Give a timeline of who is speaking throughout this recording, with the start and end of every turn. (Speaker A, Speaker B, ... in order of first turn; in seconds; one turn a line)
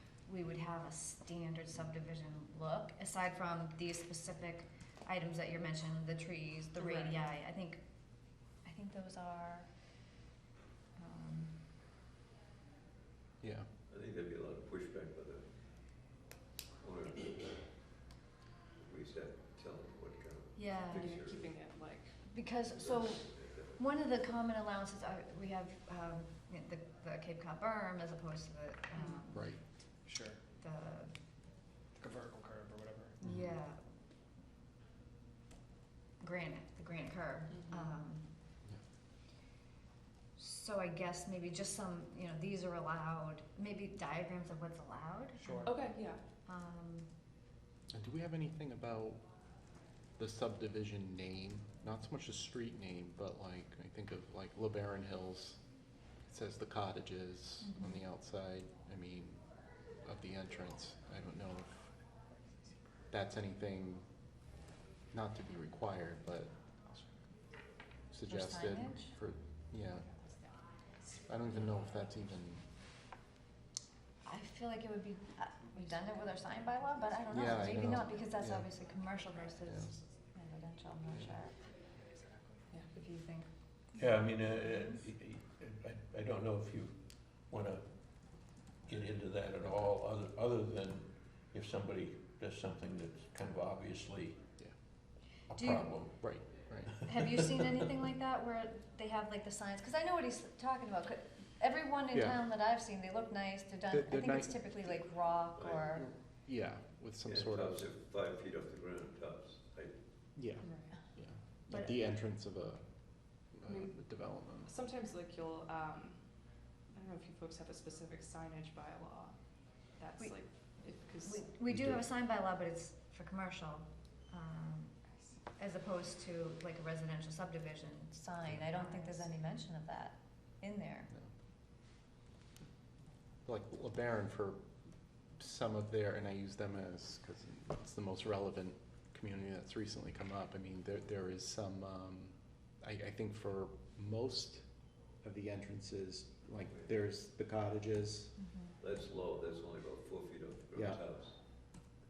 Speaker A: 0.2-7.8
Speaker B: 6.8-7.2
Speaker A: 8.6-9.7
Speaker A: 10.9-11.6
Speaker C: 13.4-13.7
Speaker D: 13.9-15.4
Speaker D: 16.8-17.9
Speaker D: 18.8-21.6
Speaker A: 20.6-21.1
Speaker B: 20.9-22.1
Speaker A: 22.3-29.5
Speaker D: 22.8-23.8
Speaker B: 28.9-29.2
Speaker C: 29.3-29.6
Speaker E: 30.1-30.4
Speaker A: 30.6-31.1
Speaker E: 32.0-33.2
Speaker A: 33.2-33.8
Speaker A: 36.2-38.3
Speaker B: 37.5-37.9
Speaker A: 40.4-45.7
Speaker E: 45.4-45.8
Speaker B: 45.6-46.2
Speaker A: 46.5-47.1
Speaker C: 47.9-49.2
Speaker C: 50.2-55.6
Speaker C: 56.2-59.5
Speaker A: 57.6-58.0
Speaker C: 60.0-61.9
Speaker C: 63.1-64.1
Speaker C: 65.1-66.5
Speaker C: 68.1-70.1
Speaker A: 68.3-69.1
Speaker C: 71.3-72.7
Speaker A: 74.2-81.5
Speaker C: 77.3-78.7
Speaker A: 82.9-83.5
Speaker F: 83.9-94.5
Speaker A: 84.5-85.0
Speaker F: 95.5-96.4
Speaker A: 95.5-96.0
Speaker C: 96.2-97.0
Speaker A: 97.0-106.1
Speaker F: 97.1-97.4
Speaker C: 102.1-102.4
Speaker C: 103.9-104.7
Speaker D: 105.6-105.9
Speaker C: 105.9-107.9
Speaker D: 107.2-110.0
Speaker C: 110.3-112.8
Speaker B: 110.6-110.9
Speaker A: 111.7-112.0
Speaker C: 113.5-114.7
Speaker B: 113.7-114.0
Speaker B: 114.6-116.2
Speaker B: 116.9-119.3
Speaker B: 120.0-121.5
Speaker A: 121.1-124.9
Speaker C: 121.7-122.0
Speaker A: 125.5-131.1
Speaker B: 128.7-129.3
Speaker C: 133.4-134.6
Speaker C: 135.4-144.6
Speaker C: 145.2-148.3
Speaker A: 148.4-148.7
Speaker D: 148.8-151.3
Speaker C: 150.7-151.0